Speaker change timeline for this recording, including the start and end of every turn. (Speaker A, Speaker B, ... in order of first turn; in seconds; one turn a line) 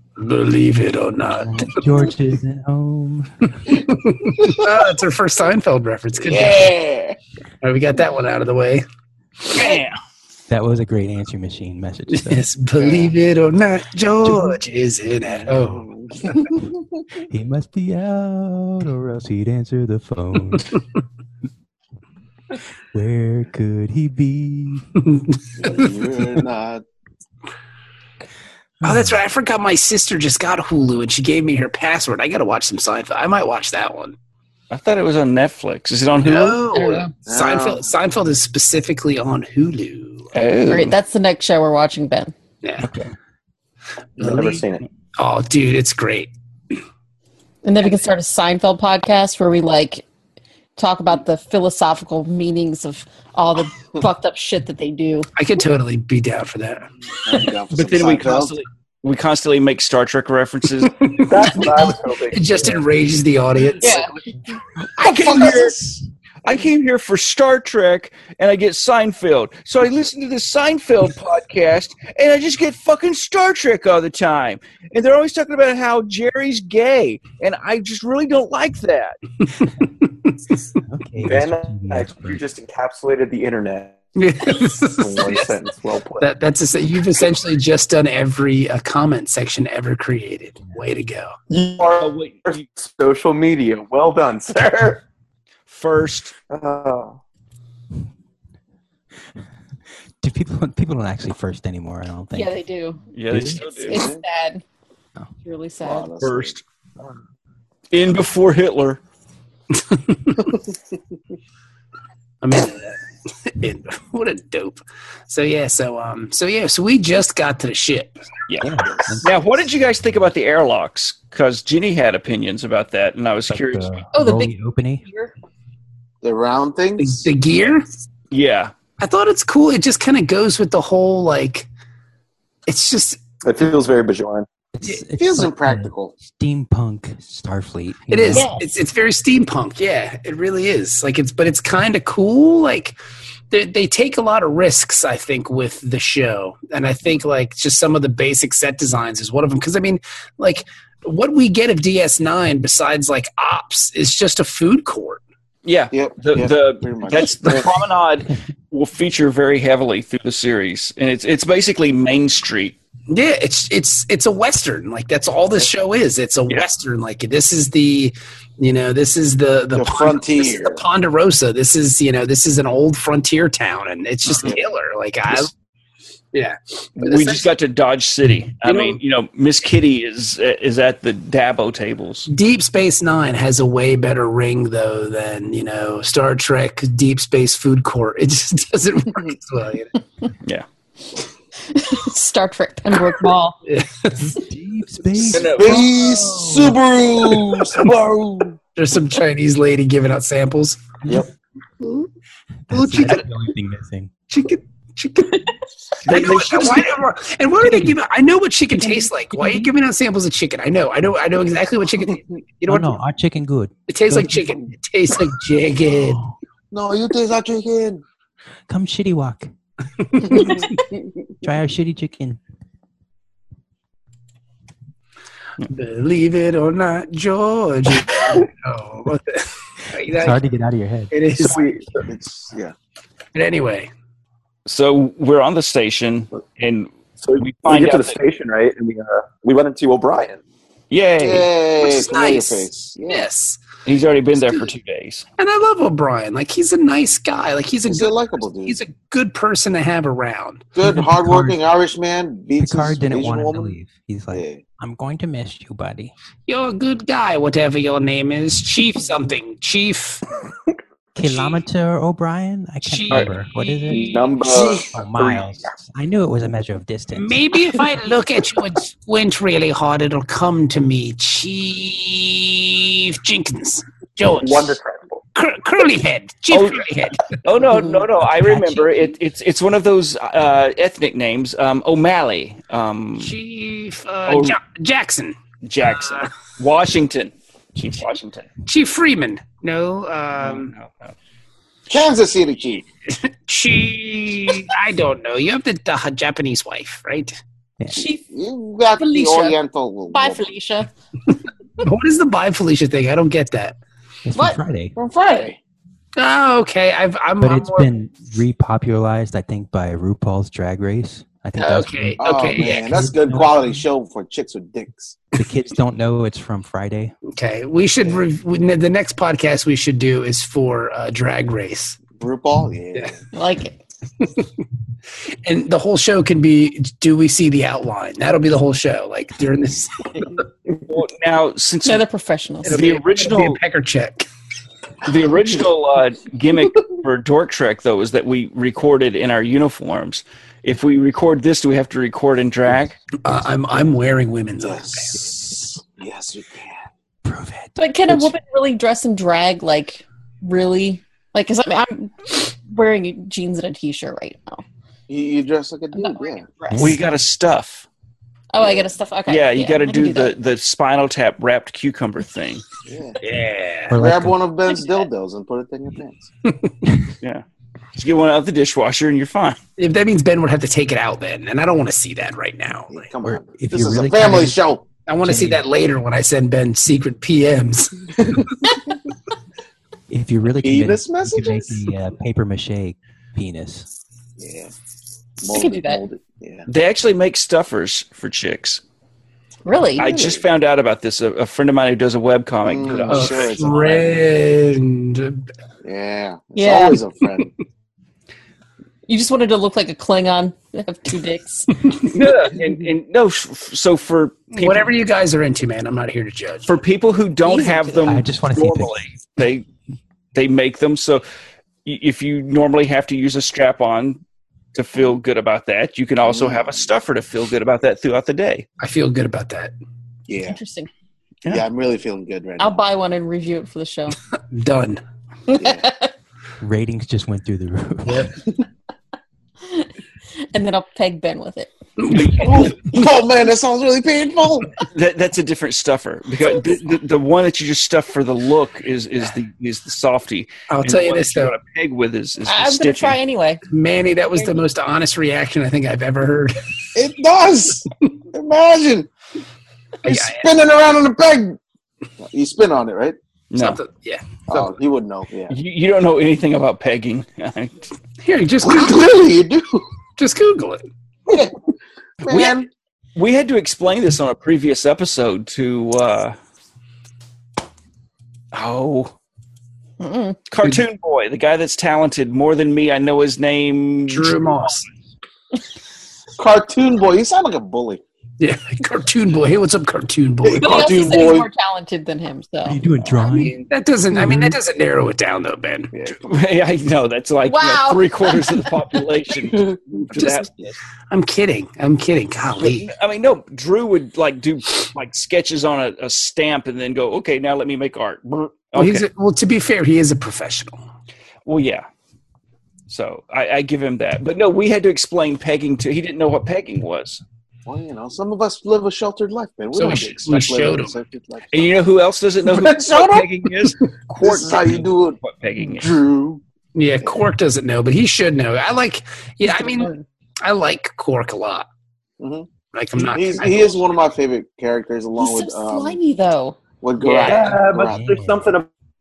Speaker A: 0.2-1.7
Speaker B: 1.4-3.8
Speaker A: 3.9-6.8
Speaker C: 6.2-7.2
Speaker A: 7.6-8.8
Speaker D: 9.5-10.0
Speaker B: 10.5-12.5
Speaker A: 12.1-15.8
Speaker C: 12.8-13.1
Speaker C: 15.3-17.0
Speaker B: 17.3-20.8
Speaker B: 22.9-24.9
Speaker C: 25.6-26.8
Speaker B: 28.8-29.2
Speaker A: 28.8-34.1
Speaker D: 34.7-36.6
Speaker A: 36.2-40.3
Speaker E: 36.8-37.1
Speaker C: 37.3-37.9
Speaker D: 40.3-41.0
Speaker E: 40.7-42.3
Speaker A: 42.6-43.0
Speaker A: 44.2-44.6
Speaker F: 44.2-44.8
Speaker A: 45.2-46.3
Speaker E: 47.6-50.0
Speaker E: 50.8-55.3
Speaker A: 55.4-56.9
Speaker C: 57.2-58.5
Speaker D: 57.7-61.2
Speaker A: 61.0-64.0
Speaker F: 61.2-62.8
Speaker E: 63.8-64.1
Speaker D: 65.0-65.8
Speaker C: 65.0-66.0
Speaker D: 66.4-79.2
Speaker B: 80.9-82.4
Speaker F: 81.2-84.0
Speaker A: 84.2-85.6
Speaker F: 84.8-86.3
Speaker A: 86.2-91.3
Speaker F: 91.5-95.0
Speaker D: 92.0-92.6
Speaker D: 95.7-96.3
Speaker F: 96.5-97.2
Speaker B: 100.2-102.6
Speaker E: 102.3-104.6
Speaker D: 103.1-104.1
Speaker B: 103.3-103.6
Speaker C: 103.9-104.2
Speaker E: 105.4-106.1
Speaker C: 105.8-106.6
Speaker D: 106.2-106.6
Speaker D: 107.9-109.0
Speaker A: 109.9-110.3
Speaker A: 112.4-118.2
Speaker D: 118.5-124.0
Speaker B: 118.6-119.3
Speaker C: 118.9-119.4
Speaker B: 123.5-125.0
Speaker E: 124.2-124.5
Speaker E: 125.0-125.3
Speaker C: 126.2-127.3
Speaker A: 127.0-127.9
Speaker D: 128.3-128.7
Speaker A: 129.0-131.7
Speaker A: 132.7-133.2
Speaker F: 133.4-134.5
Speaker B: 134.8-138.5
Speaker C: 135.2-136.1
Speaker A: 138.1-143.0
Speaker E: 138.3-138.6
Speaker A: 143.5-155.2
Speaker D: 155.7-162.8
Speaker C: 155.9-157.7
Speaker A: 163.1-175.5
Speaker C: 169.8-170.8
Speaker A: 176.3-177.5
Speaker D: 177.0-182.3
Speaker A: 178.7-179.0
Speaker A: 182.3-189.9
Speaker E: 191.7-193.6
Speaker A: 193.7-194.4
Speaker B: 194.3-195.8
Speaker D: 195.3-196.0
Speaker C: 195.3-198.6
Speaker A: 196.4-196.8
Speaker A: 198.8-200.8
Speaker B: 202.7-204.1
Speaker A: 202.7-203.3
Speaker A: 204.3-213.0
Speaker D: 206.0-207.0
Speaker B: 209.3-209.7
Speaker B: 212.7-214.6
Speaker A: 213.9-216.2
Speaker C: 216.7-218.0
Speaker B: 218.7-219.5
Speaker A: 220.0-220.8
Speaker C: 220.4-220.7
Speaker B: 221.4-222.4
Speaker A: 225.7-230.4
Speaker B: 230.1-231.1
Speaker A: 231.1-231.6
Speaker F: 231.4-231.8
Speaker C: 231.5-232.7
Speaker A: 233.3-233.9
Speaker D: 234.7-238.2
Speaker F: 237.2-240.4
Speaker D: 240.9-241.5
Speaker C: 241.2-243.3
Speaker A: 241.8-243.6
Speaker D: 243.9-245.3
Speaker A: 244.4-244.7
Speaker A: 245.4-250.7
Speaker C: 247.8-248.8
Speaker C: 250.8-253.7
Speaker B: 250.8-251.6
Speaker B: 252.6-256.1
Speaker C: 254.3-254.6
Speaker A: 256.5-260.2
Speaker B: 261.2-264.3
Speaker A: 261.2-261.6
Speaker A: 262.8-264.6
Speaker F: 263.1-265.5
Speaker C: 264.5-264.9
Speaker B: 264.9-267.4
Speaker A: 267.1-274.8
Speaker F: 274.2-275.2
Speaker A: 275.4-277.4
Speaker D: 276.5-283.3
Speaker A: 283.2-286.3
Speaker D: 284.3-284.6
Speaker D: 285.6-288.5
Speaker A: 288.6-290.7
Speaker D: 290.4-291.1
Speaker C: 291.9-292.8
Speaker A: 293.1-297.4
Speaker E: 297.9-298.2
Speaker C: 298.3-300.5
Speaker E: 299.0-299.6
Speaker E: 300.1-300.9
Speaker A: 301.3-303.8
Speaker B: 304.2-304.9
Speaker E: 304.4-304.6
Speaker C: 305.0-305.6
Speaker A: 306.2-307.9
Speaker B: 307.4-313.8
Speaker A: 311.6-313.0
Speaker C: 312.2-315.2
Speaker B: 315.4-317.1
Speaker A: 317.3-322.1
Speaker C: 322.1-323.2
Speaker E: 323.3-323.8
Speaker A: 324.2-324.5
Speaker A: 325.4-330.4
Speaker D: 330.9-332.1
Speaker E: 331.9-332.8
Speaker A: 332.6-334.3
Speaker D: 332.6-333.6
Speaker D: 335.1-343.0
Speaker A: 343.2-345.2
Speaker C: 344.6-346.8
Speaker B: 347.2-348.3
Speaker E: 347.8-354.6
Speaker C: 355.1-356.4
Speaker E: 355.9-357.0
Speaker B: 356.7-357.0
Speaker D: 356.8-357.9
Speaker E: 358.5-360.4
Speaker C: 358.6-358.9
Speaker D: 359.3-362.6
Speaker C: 362.9-363.2
Speaker A: 363.2-363.9
Speaker B: 363.9-364.4
Speaker C: 363.9-366.3
Speaker D: 368.0-369.6
Speaker A: 369.8-373.1
Speaker C: 372.9-374.9
Speaker B: 373.2-374.6
Speaker A: 375.1-378.2
Speaker B: 375.2-375.6
Speaker B: 380.1-383.9
Speaker C: 380.6-381.8
Speaker C: 384.4-384.7
Speaker C: 385.4-386.7
Speaker E: 385.5-386.0
Speaker D: 386.7-388.8
Speaker E: 389.6-390.1
Speaker C: 390.0-390.4
Speaker D: 390.0-393.7
Speaker C: 392.6-394.3
Speaker A: 393.1-395.5
Speaker C: 395.8-397.5
Speaker E: 396.6-397.0
Speaker E: 399.1-401.7
Speaker D: 402.0-404.9
Speaker A: 404.5-406.7
Speaker D: 406.7-409.7
Speaker E: 407.5-408.0
Speaker B: 407.9-409.0
Speaker D: 410.4-411.2
Speaker D: 411.9-414.2
Speaker D: 414.8-418.7
Speaker C: 416.2-416.9
Speaker A: 418.8-419.7
Speaker C: 420.3-420.6
Speaker E: 420.4-420.9
Speaker C: 421.5-422.8
Speaker E: 422.6-424.2
Speaker A: 424.5-425.0
Speaker E: 425.5-426.1
Speaker C: 425.6-425.9
Speaker B: 426.6-428.3
Speaker A: 428.1-428.4
Speaker E: 430.5-431.7
Speaker A: 432.0-432.7
Speaker D: 432.1-432.7
Speaker C: 432.3-434.8
Speaker D: 434.9-443.2
Speaker A: 440.7-441.5
Speaker E: 442.5-443.6
Speaker A: 443.7-446.6
Speaker C: 446.9-449.1
Speaker A: 450.0-450.5
Speaker C: 450.1-451.6
Speaker C: 452.2-453.2
Speaker D: 453.5-453.8
Speaker A: 453.6-454.6
Speaker C: 454.5-455.6
Speaker D: 455.5-457.9
Speaker A: 458.2-459.0
Speaker C: 458.6-459.9
Speaker A: 460.2-460.9
Speaker C: 461.3-461.6
Speaker C: 462.2-462.7
Speaker D: 462.2-462.6
Speaker D: 463.2-466.4
Speaker D: 468.5-469.1
Speaker E: 470.0-470.4
Speaker D: 470.5-474.8
Speaker A: 474.1-474.9
Speaker C: 476.4-478.0
Speaker A: 478.4-481.4
Speaker C: 480.4-481.5
Speaker E: 480.6-482.8
Speaker B: 482.6-483.6
Speaker A: 483.2-486.1
Speaker B: 484.1-484.6
Speaker C: 485.9-486.3
Speaker D: 486.2-490.8
Speaker E: 487.5-488.6
Speaker A: 490.1-490.5
Speaker A: 491.1-492.9
Speaker D: 492.6-499.1
Speaker A: 498.8-500.8
Speaker D: 501.5-501.9
Speaker D: 502.9-507.2
Speaker C: 507.7-511.8
Speaker A: 509.7-510.9
Speaker D: 511.5-516.0
Speaker C: 512.4-515.2
Speaker C: 515.8-516.4
Speaker A: 516.8-521.7
Speaker E: 519.5-520.0
Speaker C: 522.2-526.0
Speaker A: 522.7-523.8
Speaker E: 525.2-527.3
Speaker C: 526.8-528.0
Speaker F: 527.1-528.7
Speaker B: 527.7-528.5